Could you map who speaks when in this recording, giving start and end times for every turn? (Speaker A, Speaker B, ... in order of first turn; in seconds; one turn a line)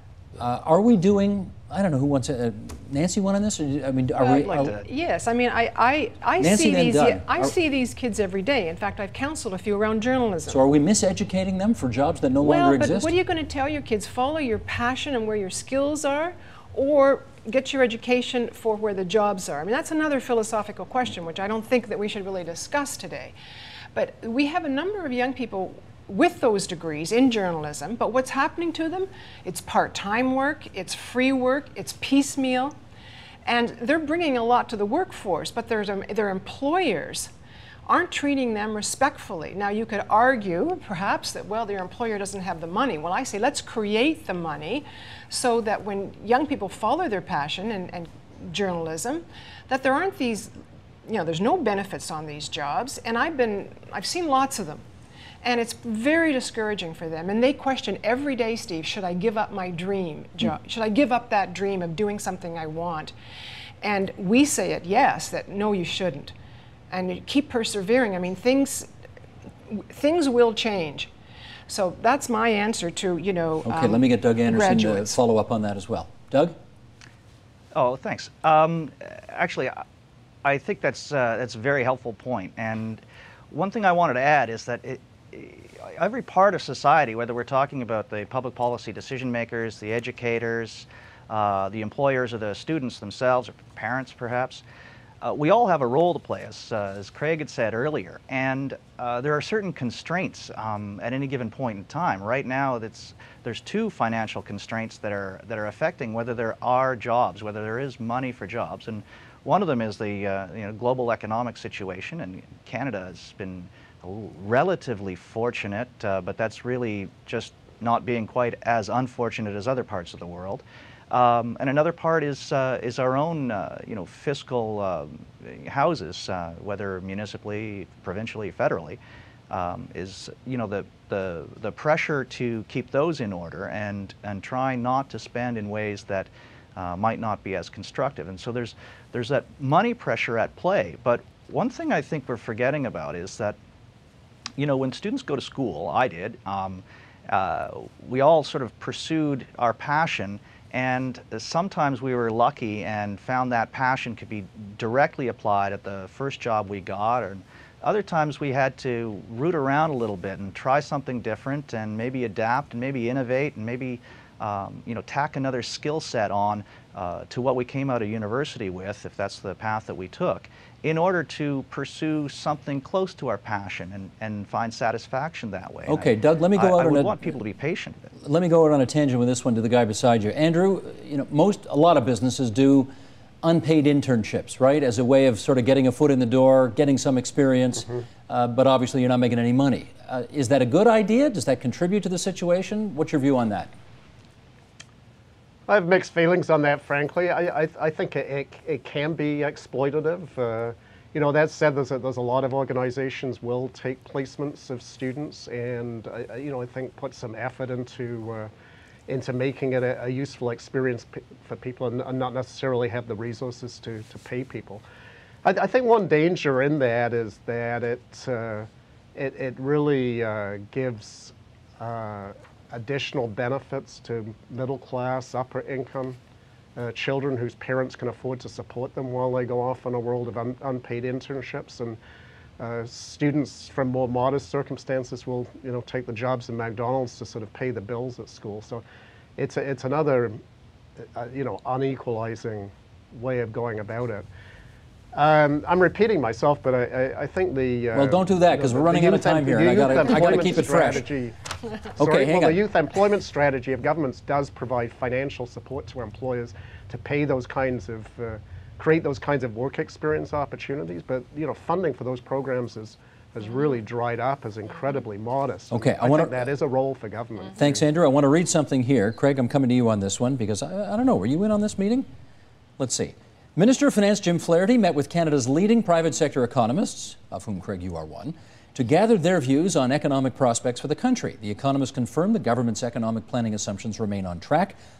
Speaker A: 0.4-4.7
Speaker B: 4.2-10.6
Speaker C: 4.5-4.8
Speaker A: 6.4-7.5
Speaker A: 10.5-13.1
Speaker B: 12.4-23.3
Speaker B: 23.9-32.7
Speaker B: 33.4-37.3
Speaker B: 37.9-50.5
Speaker B: 51.0-54.8
Speaker B: 55.4-63.1
Speaker B: 63.8-66.3
Speaker B: 66.9-68.9
Speaker B: 69.7-71.1
Speaker B: 71.7-75.2
Speaker A: 73.6-76.5
Speaker C: 77.7-79.8
Speaker C: 80.4-94.6
Speaker C: 95.2-143.6
Speaker C: 144.6-178.1
Speaker A: 175.9-177.2
Speaker A: 178.2-182.9
Speaker A: 183.4-193.7
Speaker D: 195.7-208.5
Speaker D: 209.1-214.8
Speaker D: 215.4-226.2
Speaker D: 226.8-232.0
Speaker D: 232.6-238.8
Speaker D: 239.4-240.4
Speaker D: 241.0-244.3
Speaker D: 245.1-251.4
Speaker A: 247.9-251.1
Speaker D: 251.9-267.8
Speaker A: 252.0-252.6
Speaker A: 265.7-266.4
Speaker A: 267.6-272.1
Speaker A: 272.8-284.8